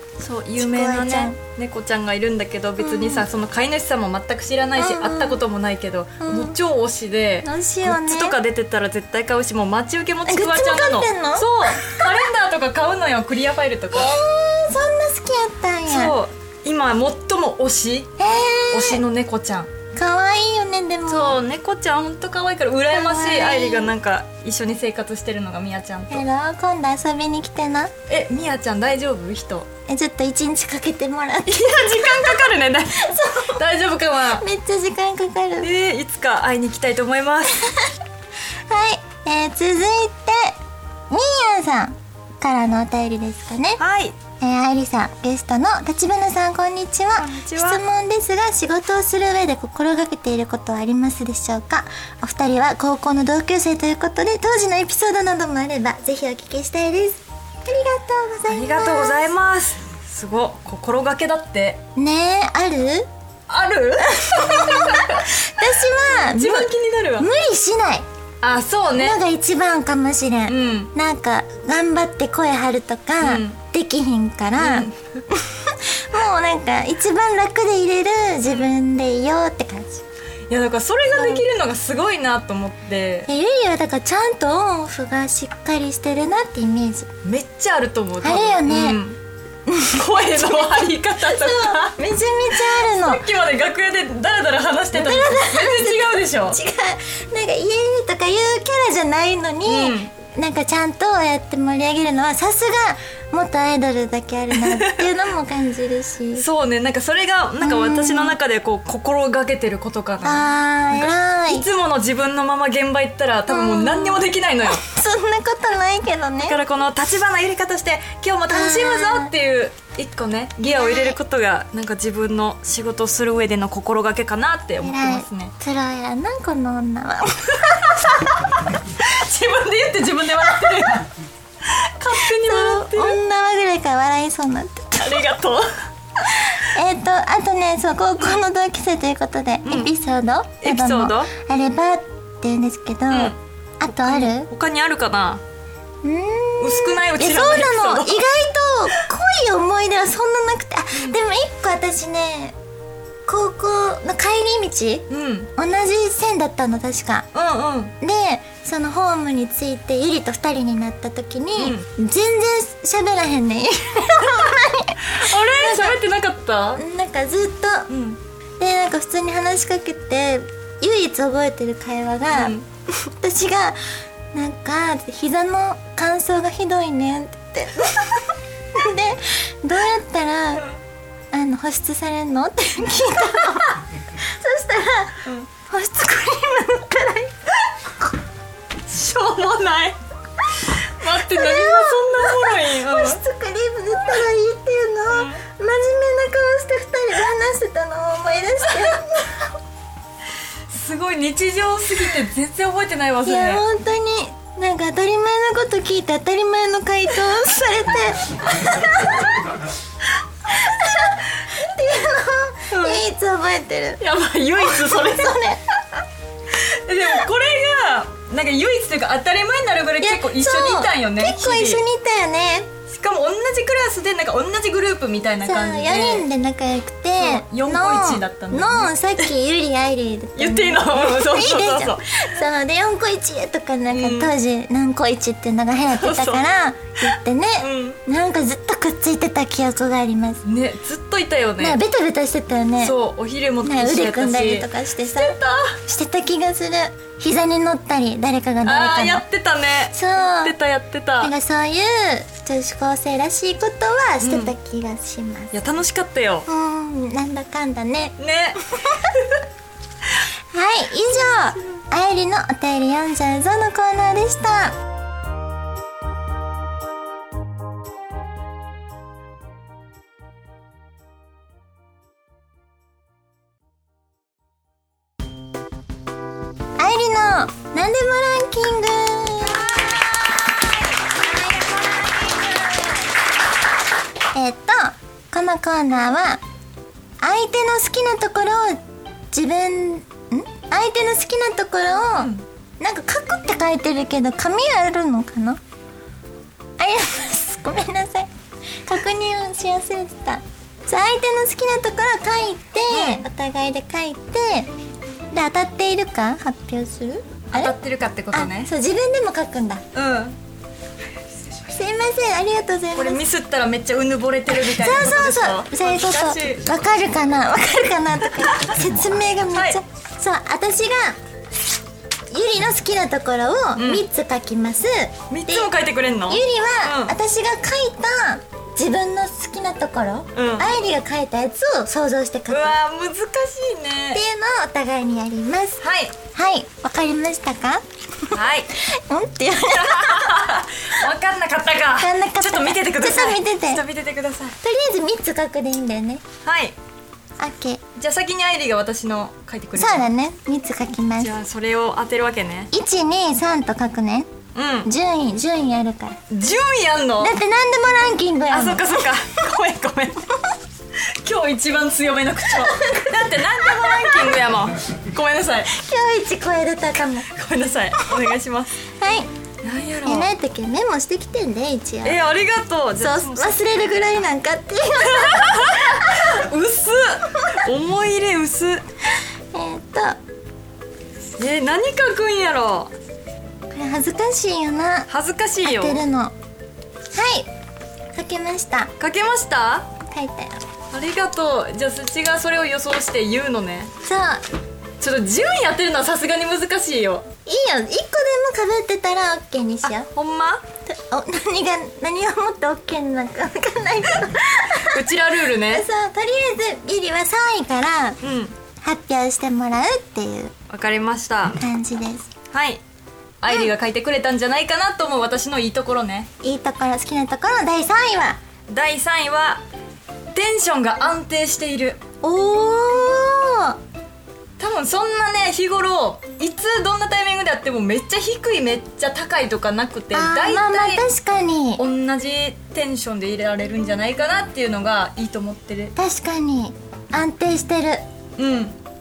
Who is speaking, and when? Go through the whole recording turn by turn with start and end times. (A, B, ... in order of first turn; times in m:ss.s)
0:00.2-0:14.1 A
0:00.6-0:01.4 B
0:02.8-0:03.3 B
0:04.8-0:05.4 B
0:06.2-0:06.6 B
0:07.4-0:08.4 B
0:10.3-0:12.0 B
0:13.9-0:16.1 B
0:15.9-0:18.1 A
0:18.2-0:19.0 B
0:18.7-0:19.7 A
0:19.9-0:21.4 B
0:21.1-0:26.2 A
0:22.9-0:23.9 B
0:26.1-0:27.9 B
0:28.1-0:29.7 A
0:29.9-0:33.6 B
0:31.5-0:34.4 A
0:34.4-0:35.7 B
0:35.6-0:37.6 A
0:37.7-0:37.9 B
0:38.7-0:40.6 B
0:41.1-0:43.8 B
0:43.8-0:44.2 A
0:44.4-0:59.3 B
0:47.2-0:47.8 A
0:58.5-1:01.8 A
1:02.0-1:03.1 B
1:03.5-1:07.3 A
1:04.1-1:08.1 B
1:08.4-1:09.2 A
1:09.0-1:20.0 B
1:10.5-1:10.9 A
1:13.2-1:13.6 A
1:14.6-1:15.2 A
1:20.5-1:23.3 A
1:21.2-1:21.4 B
1:23.3-1:27.1 B
1:27.2-1:29.2 A
1:28.2-1:29.0 B
1:29.7-1:33.2 B
1:29.9-1:32.0 A
1:32.6-1:36.6 A
1:34.9-1:46.4 B
1:39.6-1:40.1 A
1:44.5-1:45.1 A
1:46.4-1:54.8 A
1:47.6-1:48.4 B
1:50.2-1:51.7 B
1:53.5-1:56.6 B
1:56.4-2:05.5 A
1:58.5-1:59.3 B
2:00.7-2:01.2 B
2:04.8-2:08.4 B
2:08.3-2:11.1 A
2:11.6-2:13.2 A
2:12.2-2:15.3 B
2:15.0-2:16.5 A
2:16.4-2:24.5 B
2:19.6-2:19.9 A
2:20.6-2:21.3 A
2:23.1-2:23.4 A
2:23.9-2:25.4 A
2:26.0-2:32.6 B
2:26.6-2:28.2 A
2:33.3-2:37.3 B
2:35.1-2:35.5 A
2:37.3-2:38.0 A
2:38.0-2:46.0 B
2:41.6-2:41.9 A
2:45.1-2:46.8 A
2:46.8-2:47.9 B
2:47.9-2:48.2 A
2:48.6-2:53.8 B
2:52.3-2:52.6 A
2:54.3-3:00.7 B
3:01.3-3:07.4 B
3:08.9-3:10.0 A
3:10.7-3:13.2 A
3:11.1-3:19.5 B
3:15.1-3:15.4 A
3:20.7-3:23.6 A
3:23.2-3:29.4 B
3:30.5-3:34.0 B
3:32.7-3:33.0 A
3:34.0-3:35.4 A
3:34.6-3:35.6 B
3:36.5-3:41.8 A
3:40.0-3:42.7 B
3:42.9-3:46.3 A
3:45.4-4:00.4 B
3:47.2-3:48.9 A
3:50.4-3:52.3 A
3:53.9-3:54.3 A
3:55.9-3:56.4 A
3:57.1-3:58.0 A
4:00.4-4:01.8 A
4:01.6-4:03.0 B
4:02.8-4:05.8 A
4:03.6-4:09.2 B
4:08.6-4:11.3 A
4:09.9-4:10.6 B
4:11.2-4:15.5 B
4:14.2-4:14.5 A
4:15.5-4:16.5 A
4:16.5-4:18.2 B
4:18.2-4:19.4 A
4:18.8-4:19.1 B
4:20.5-4:24.8 B
4:36.8-4:40.6 B
4:39.5-4:42.2 A
4:41.2-4:43.0 B
4:44.4-4:46.4 B
4:47.2-4:55.6 B
4:52.2-4:52.4 A
4:56.8-4:58.3 B
4:58.9-5:04.7 B
5:02.9-5:03.2 A
5:05.3-5:07.7 B
5:07.5-5:08.7 A
5:08.3-5:09.8 B
5:09.9-5:10.4 A
5:11.7-5:13.2 B
5:12.9-5:16.6 A
5:14.5-5:21.2 B
5:19.5-5:19.8 A
5:22.3-5:25.7 B
5:23.8-5:24.0 A
5:25.3-5:27.2 A
5:26.3-5:32.8 B
5:30.4-5:30.8 A
5:32.5-5:34.2 A
5:34.1-5:40.5 B
5:35.8-5:36.2 A
5:38.3-5:38.7 A
5:39.7-5:44.6 A
5:42.0-5:43.8 B
5:44.6-5:46.2 B
5:46.4-5:46.8 A
5:47.4-5:47.8 B
5:48.0-5:50.1 A
5:49.8-5:51.3 B
5:51.2-5:52.7 A
5:52.7-5:54.3 B
5:54.5-5:54.9 A
5:54.8-5:56.2 B
5:56.3-5:57.4 A
5:57.2-5:59.0 B
5:58.5-6:00.3 A
6:01.2-6:05.7 A
6:02.6-6:04.4 B
6:05.7-6:07.3 B
6:07.3-6:08.8 A
6:09.0-6:09.3 B
6:09.6-6:10.3 A
6:10.0-6:12.2 B
6:12.0-6:14.2 A
6:13.0-6:16.2 B
6:15.1-6:18.8 A
6:19.5-6:20.2 B
6:21.4-6:22.9 A
6:23.7-6:25.1 B
6:25.1-6:26.0 A
6:25.6-6:26.3 B
6:27.1-6:27.5 B
6:28.2-6:28.9 B
6:29.0-6:29.9 A
6:30.1-6:30.6 B
6:30.9-6:33.9 A
6:34.0-6:34.4 B
6:35.0-6:37.3 A
6:37.4-6:40.1 B
6:39.8-6:40.6 A
6:40.9-6:45.0 B
6:44.8-6:45.9 A
6:45.6-6:48.2 B
6:48.2-6:48.6 A
6:48.8-6:50.5 B
6:50.7-6:51.6 A
6:51.6-6:52.3 B
6:52.5-6:52.8 A
6:53.4-6:56.3 A
6:56.4-6:58.4 B
6:58.7-6:59.6 A
7:00.3-7:02.0 A
7:02.2-7:03.8 B
7:04.6-7:11.0 A
7:10.1-7:11.8 B
7:11.8-7:15.9 A
7:16.0-7:18.0 B
7:18.4-7:18.8 A